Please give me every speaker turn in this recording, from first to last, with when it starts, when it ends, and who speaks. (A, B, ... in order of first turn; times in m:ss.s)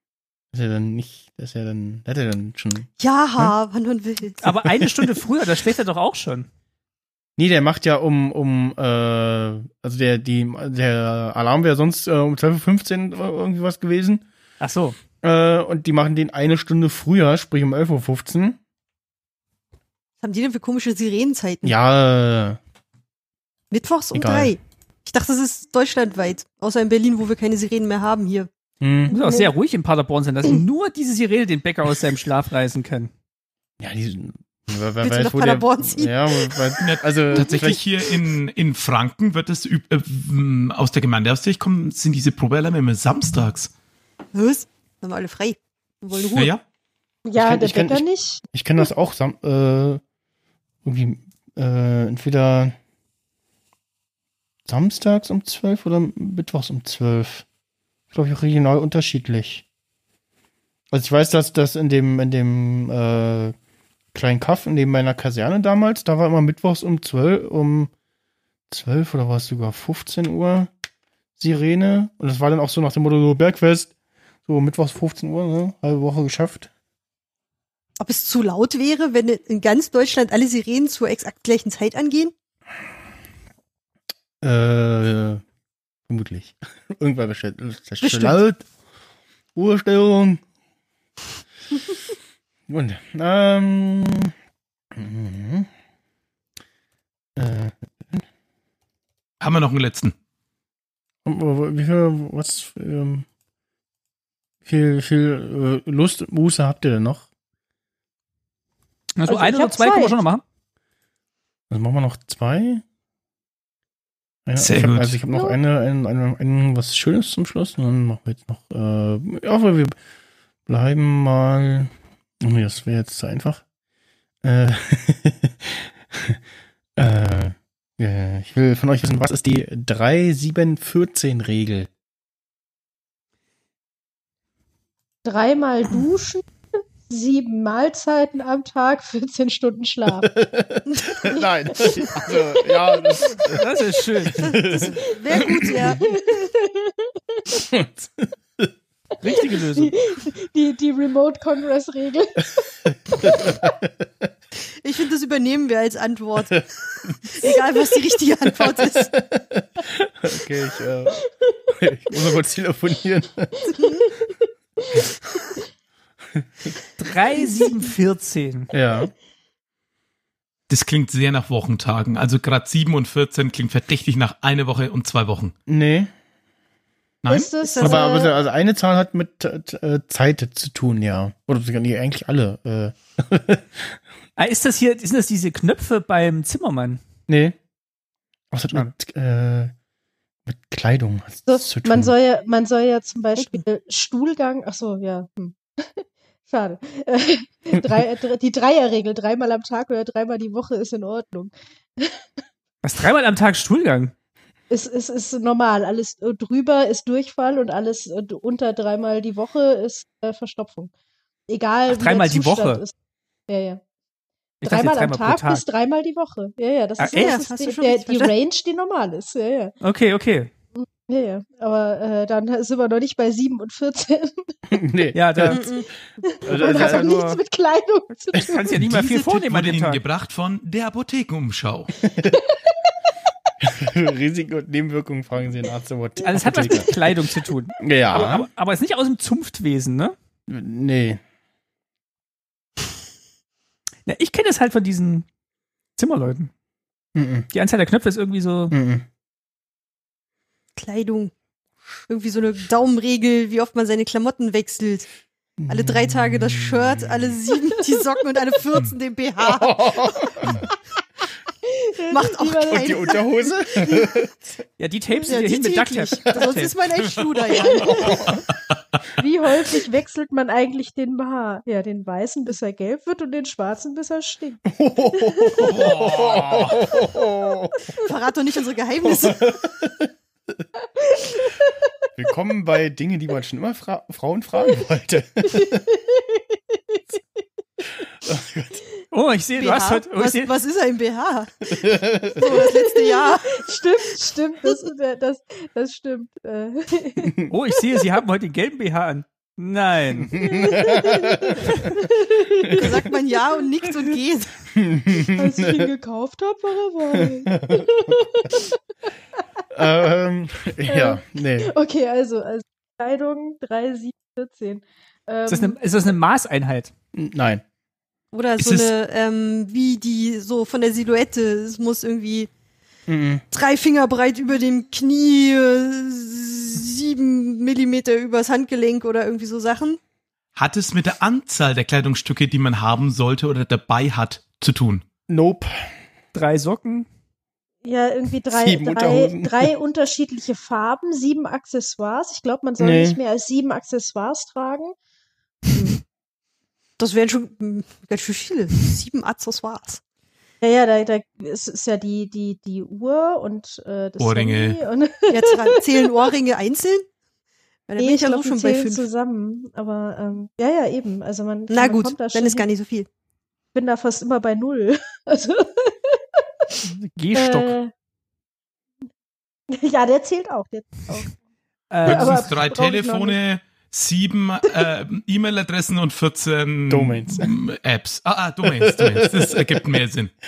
0:00.5-0:03.5 A
0:03.0-0:04.4 B
0:04.4-0:06.5 C
0:04.6-0:05.1 A
0:07.4-0:14.2 A
0:14.6-0:15.0 C
0:15.2-0:18.6 A
0:20.2-0:21.8 B
0:21.6-0:22.6 A
0:23.7-0:28.5 B
0:24.1-0:24.6 A
0:28.8-0:29.1 A
0:29.1-0:29.6 D
0:29.1-0:33.1 C
0:33.8-0:37.8 A
0:35.0-0:36.8 B
0:36.8-0:43.7 E
0:44.3-0:46.5 B
0:46.3-0:46.6 E
0:47.3-0:48.4 D
0:47.4-0:50.0 A
0:50.8-0:52.8 A
0:54.7-0:57.5 A
0:58.1-0:59.6 A
1:00.9-1:03.6 A
1:04.1-1:07.9 A
1:08.7-1:10.7 A
1:11.4-1:13.9 A
1:14.5-1:16.7 A
1:18.0-1:22.3 B
1:24.4-1:25.4 A
1:26.1-1:28.6 A
1:28.0-1:28.4 B
1:29.6-1:30.4 A
1:32.7-1:34.3 A
1:34.9-1:35.7 A
1:37.4-1:38.2 A
1:39.4-1:40.1 E
1:41.2-1:43.3 A
1:44.6-1:47.3 A
1:49.2-1:50.4 C
1:49.2-1:50.2 D
1:51.7-1:52.8 A
1:54.5-2:00.0 A
1:54.6-1:55.2 E
1:55.3-1:55.6 D
2:00.7-2:03.6 A
2:04.4-2:06.4 A
2:07.0-2:11.9 A
2:15.2-2:16.4 D
2:17.1-2:20.3 D
2:20.2-2:23.6 A
2:21.3-2:23.4 D
2:23.5-2:24.7 C
2:24.2-2:26.0 A
2:24.4-2:26.1 B
2:24.8-2:27.6 D
2:27.7-2:28.7 A
2:29.2-2:30.0 C
2:29.3-2:32.5 D
2:32.9-2:34.1 A
2:33.1-2:33.6 D
2:34.8-2:39.1 B
2:38.6-2:43.7 A
2:41.2-2:41.6 D
2:43.8-2:45.6 D
2:47.0-2:48.7 C
2:47.4-2:47.9 D
2:48.7-2:49.1 A
2:50.7-2:55.5 E
2:55.7-2:56.1 A
2:57.2-2:57.5 E
2:57.3-2:58.3 D
2:57.6-2:58.2 B
2:57.8-3:04.0 A
3:04.4-3:07.0 C
3:07.3-3:07.6 A
3:08.5-3:09.7 A
3:10.5-3:12.1 A
3:11.5-3:22.2 D
3:22.8-3:24.1 C
3:24.7-3:30.9 D
3:31.5-3:32.9 D
3:31.9-3:32.8 C
3:33.5-3:33.8 D
3:34.6-3:35.6 C
3:34.6-3:39.8 D
3:37.0-3:37.4 C
3:37.1-3:38.3 B
3:39.8-3:40.5 C
3:40.8-3:44.5 D
3:44.7-3:45.7 A
3:45.1-3:45.7 C
3:45.5-3:45.9 B
3:46.2-3:48.6 D
3:46.5-3:47.2 A
3:46.5-3:47.4 C
3:48.4-3:50.0 C
3:48.8-3:51.9 E
3:52.1-3:52.4 A
3:52.2-3:52.8 D
3:53.6-3:57.2 A
3:56.2-4:00.2 C
3:57.8-3:58.5 A
4:00.5-4:01.2 A
4:04.1-4:05.3 C
4:06.0-4:06.5 C
4:07.2-4:07.5 A
4:07.5-4:08.8 C
4:08.7-4:09.0 A
4:10.8-4:11.3 B
4:12.1-4:15.1 B
4:15.6-4:17.4 A
4:15.7-4:20.3 B
4:19.4-4:20.7 A
4:21.6-4:24.1 D
4:22.1-4:23.2 B
4:22.7-4:24.6 A
4:24.8-4:26.7 C
4:25.2-4:28.3 B
4:27.6-4:28.2 D
4:27.9-4:28.4 A
4:29.2-4:35.7 D
4:34.7-4:37.9 A
4:35.6-4:36.8 E
4:37.9-4:39.5 B
4:39.0-4:40.1 A
4:41.0-4:41.9 D
4:42.2-4:45.9 A
4:45.4-4:47.0 D
4:48.2-4:48.8 A
4:49.1-4:50.5 C
4:49.6-4:51.7 B
4:51.7-4:52.6 A
4:52.4-4:53.8 B
4:52.4-4:58.0 D
4:57.3-4:57.5 A
4:57.5-5:00.5 C
5:00.2-5:01.9 A
5:00.4-5:03.1 D
5:02.7-5:04.6 B
5:04.7-5:05.9 A
5:05.1-5:08.8 D
5:07.1-5:08.3 A
5:09.7-5:11.7 A
5:10.8-5:15.8 D
5:15.5-5:16.9 C
5:17.1-5:17.6 A
5:18.3-5:22.5 B
5:18.6-5:18.9 E
5:23.1-5:23.4 A
5:23.5-5:30.0 B
5:30.6-5:35.0 E
5:35.3-5:35.7 A
5:36.3-5:37.1 C
5:37.8-5:45.0 D
5:38.5-5:39.7 A
5:42.8-5:43.2 A
5:45.7-5:46.0 B
5:47.0-5:50.0 B
5:50.6-5:56.2 D
5:54.2-5:54.8 E
5:55.3-5:57.1 B
5:57.9-5:59.1 B
5:58.0-6:02.7 D
6:01.7-6:03.1 B
6:03.7-6:06.8 D
6:06.8-6:07.8 C
6:07.3-6:07.9 D
6:09.7-6:11.3 D
6:11.9-6:12.5 C
6:12.0-6:13.4 D
6:12.0-6:20.3 E
6:16.9-6:17.5 A
6:18.6-6:19.8 A